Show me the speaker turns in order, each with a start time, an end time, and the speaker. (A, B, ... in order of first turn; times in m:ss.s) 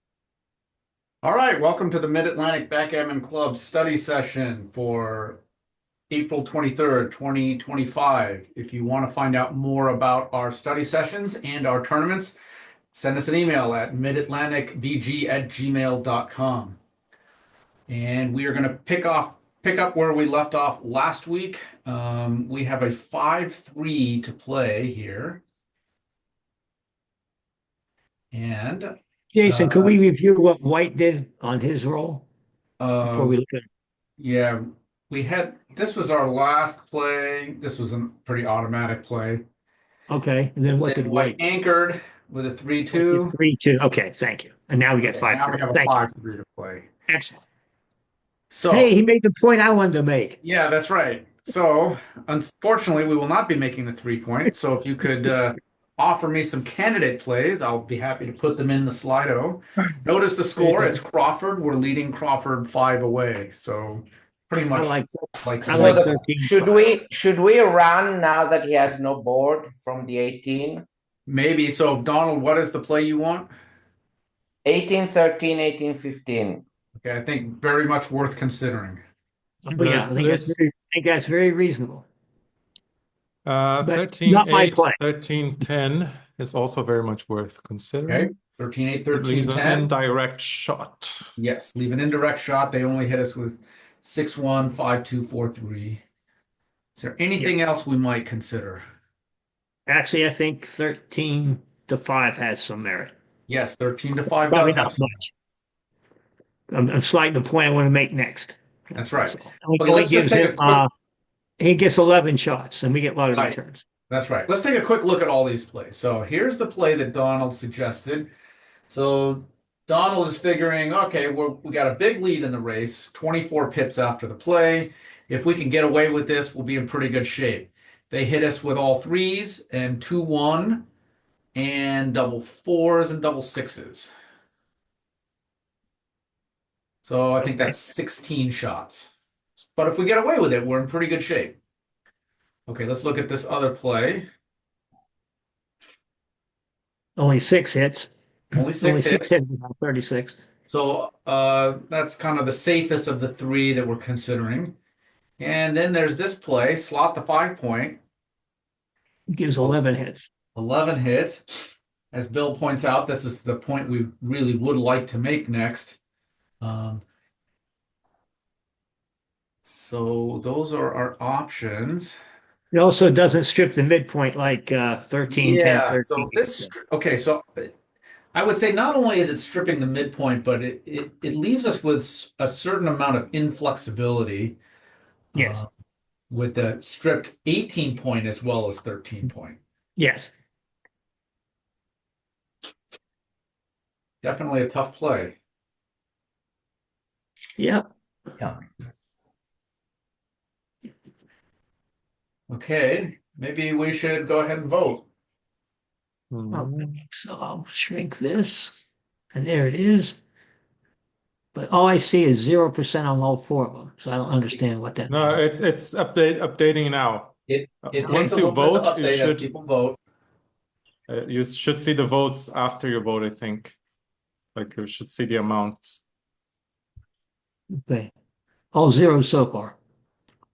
0:01.2-0:05.4 A
0:06.1-0:12.4 A
0:12.9-0:16.8 A
0:17.9-0:25.4 A
0:28.3-0:29.9 A
0:29.3-0:32.2 B
0:32.8-0:33.4 A
0:33.0-0:33.7 B
0:34.2-0:39.4 A
0:40.1-0:41.4 B
0:40.8-0:43.4 A
0:42.9-0:46.0 B
0:45.0-0:46.9 A
0:47.1-0:47.4 B
0:48.5-0:48.9 A
0:48.7-0:50.4 B
0:50.4-1:06.2 A
1:00.6-1:01.0 B
1:04.7-1:06.7 B
1:05.6-1:10.8 C
1:11.3-1:13.5 A
1:14.6-1:16.6 C
1:17.0-1:19.0 A
1:19.7-1:22.1 B
1:19.8-1:20.6 D
1:23.4-1:28.3 D
1:23.8-1:25.0 B
1:28.1-1:29.9 A
1:29.2-1:31.3 D
1:31.4-1:36.0 A
1:37.0-1:38.8 A
1:39.9-1:43.1 B
1:43.5-1:45.2 A
1:44.5-1:45.3 B
1:46.7-1:50.9 B
1:49.0-1:50.8 A
1:51.6-1:53.8 B
1:53.3-1:53.6 A
1:54.1-1:58.3 A
1:58.9-2:10.9 A
2:11.6-2:14.1 A
2:17.0-2:21.6 A
2:22.7-2:24.3 A
2:27.2-2:30.4 B
2:28.5-2:29.4 A
2:30.7-2:34.8 A
2:35.4-2:38.0 A
2:39.3-2:40.3 B
2:40.6-2:41.4 A
2:42.1-2:46.0 A
2:46.6-2:47.0 A
2:49.7-2:52.2 A
2:52.7-2:56.7 B
2:55.3-2:57.8 A
2:58.3-3:04.6 A
3:05.3-3:05.7 A
3:05.4-3:05.6 B
3:06.3-3:09.6 A
3:10.0-3:10.3 B
3:14.2-3:15.4 A
3:17.6-3:17.8 B
3:22.5-3:25.1 A
3:26.3-3:26.8 D
3:26.5-3:28.7 B
3:29.3-3:30.2 B
3:31.5-3:35.4 B
3:35.1-3:39.5 D
3:37.5-3:40.0 A
3:41.1-3:43.8 D
3:44.6-3:46.0 D
3:47.8-3:48.1 B
3:48.7-3:49.8 B